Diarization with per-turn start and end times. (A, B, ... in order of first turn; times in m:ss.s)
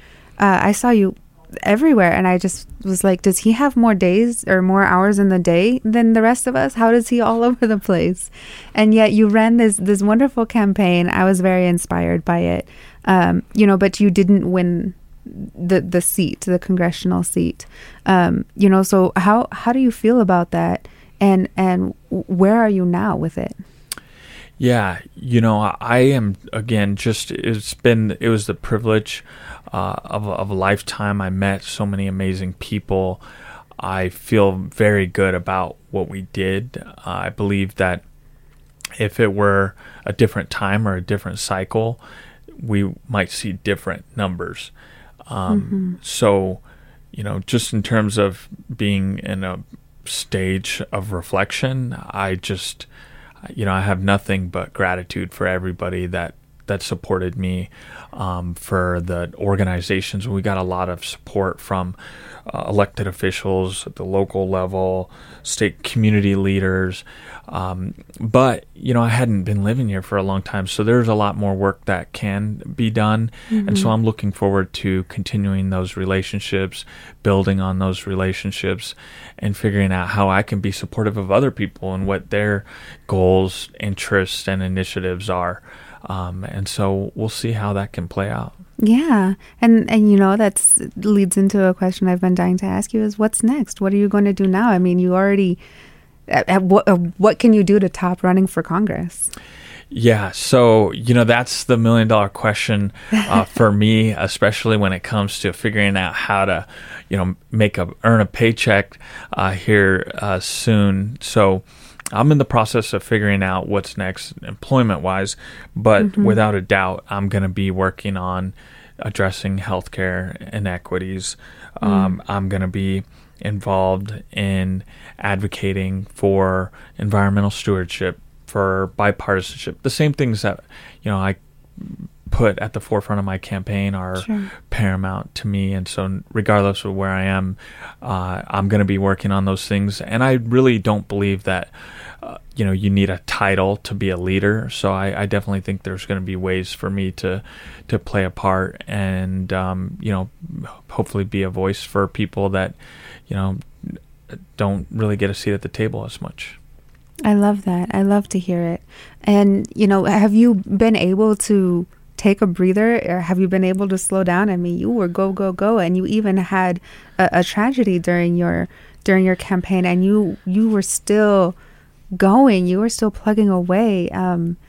0:00.4-0:23.6 A
0:24.6-0:33.2 B
0:33.8-0:38.0 B
0:39.0-0:42.0 B
0:42.6-0:44.7 B
0:45.3-0:46.6 B
0:45.5-0:46.0 A
0:47.1-0:52.9 B
0:53.4-1:28.6 B
1:13.5-1:13.9 A
1:28.8-1:35.6 A
1:36.3-1:39.3 A
1:39.9-2:32.8 B
1:56.0-1:56.4 A
2:01.8-2:02.2 A
2:14.2-2:14.5 A
2:33.3-2:34.0 B
2:34.5-2:36.6 B
2:37.2-2:51.5 A
2:52.1-2:54.6 A